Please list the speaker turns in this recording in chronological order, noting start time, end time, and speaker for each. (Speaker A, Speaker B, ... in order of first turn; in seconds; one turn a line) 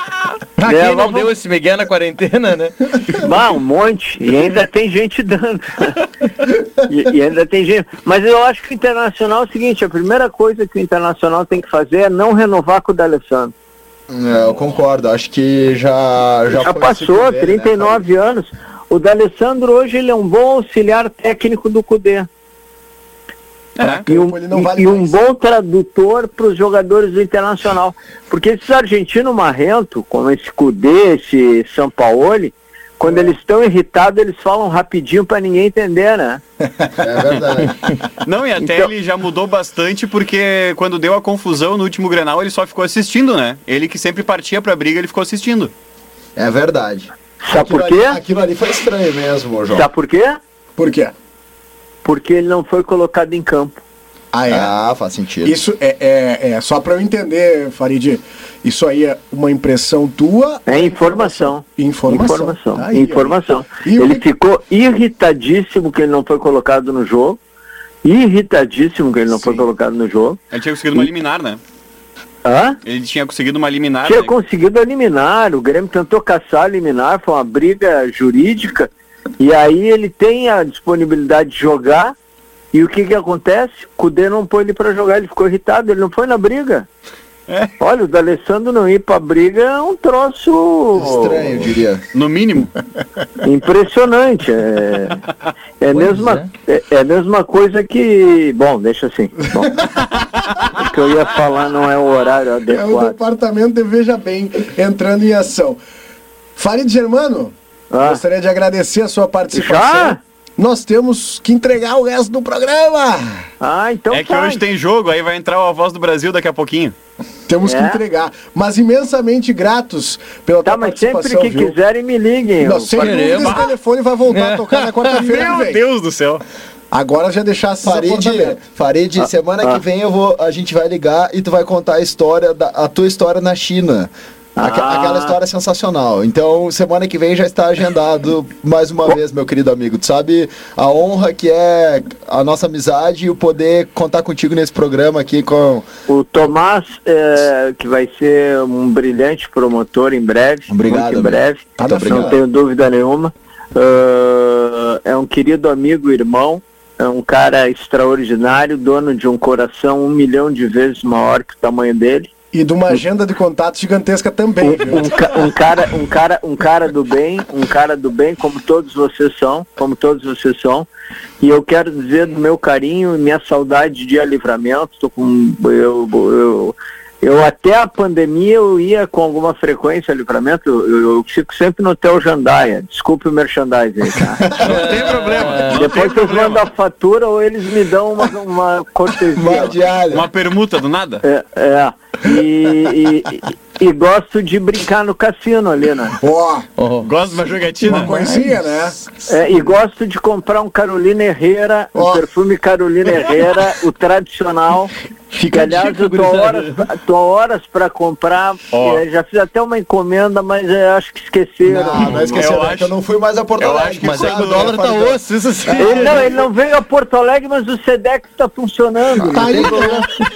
Speaker A: 0.6-2.8
Speaker B: 0.6-1.3
Speaker B: 3.2-6.0
Speaker B: 6.8-13.5
Speaker C: 14.1-18.0
Speaker B: 16.5-22.3
Speaker D: 23.8-24.1
Speaker E: 23.8-25.1
Speaker B: 24.1-36.4
Speaker E: 33.1-33.3
Speaker C: 37.0-37.9
Speaker D: 38.2-45.7
Speaker B: 38.6-38.9
Speaker C: 46.4-49.9
Speaker B: 47.4-48.2
Speaker B: 49.7-50.4
Speaker E: 50.8-51.1
Speaker B: 52.0-53.8
Speaker E: 54.3-54.7
Speaker C: 54.5-55.6
Speaker E: 55.4-64.3
Speaker B: 60.7-67.4
Speaker B: 68.0-70.4
Speaker E: 69.3-69.6
Speaker D: 70.5-71.6
Speaker B: 72.5-72.8
Speaker D: 72.8-74.3
Speaker B: 74.0-82.2
Speaker B: 82.7-86.9
Speaker B: 87.8-91.6
Speaker C: 91.0-92.0
Speaker D: 92.1-92.7
Speaker B: 93.4-95.2
Speaker B: 95.8-99.9
Speaker A: 95.9-96.5
Speaker E: 99.6-100.0
Speaker B: 100.7-103.2
Speaker E: 102.7-105.8
Speaker E: 106.6-113.4
Speaker B: 107.9-108.2
Speaker B: 109.5-110.2
Speaker B: 113.6-114.6
Speaker D: 114.1-116.9
Speaker E: 117.5-121.8
Speaker B: 117.6-118.0
Speaker B: 120.6-123.3
Speaker E: 122.6-125.8
Speaker A: 123.0-123.7
Speaker D: 123.4-123.7
Speaker A: 124.3-125.1
Speaker D: 125.1-126.4
Speaker E: 126.9-128.6
Speaker C: 127.8-145.9
Speaker B: 129.2-129.8
Speaker B: 134.6-135.4
Speaker B: 146.1-162.3
Speaker C: 150.7-152.4
Speaker E: 151.8-152.4
Speaker E: 162.5-165.5
Speaker B: 164.6-170.9
Speaker B: 171.4-184.5
Speaker A: 184.6-185.9
Speaker D: 184.6-186.7
Speaker B: 185.6-189.8
Speaker C: 189.3-190.3
Speaker D: 190.1-191.2
Speaker B: 191.2-196.2
Speaker E: 196.2-196.7
Speaker A: 196.8-197.1
Speaker D: 197.0-198.1
Speaker E: 197.8-199.0
Speaker A: 197.9-198.6
Speaker B: 199.3-204.9
Speaker E: 201.9-202.2
Speaker A: 205.3-206.8
Speaker B: 205.5-212.5
Speaker D: 208.7-209.0
Speaker C: 211.7-216.2
Speaker D: 212.3-212.9
Speaker D: 213.6-215.0
Speaker A: 214.0-216.2
Speaker B: 215.8-220.1
Speaker E: 219.2-220.1
Speaker C: 219.3-220.0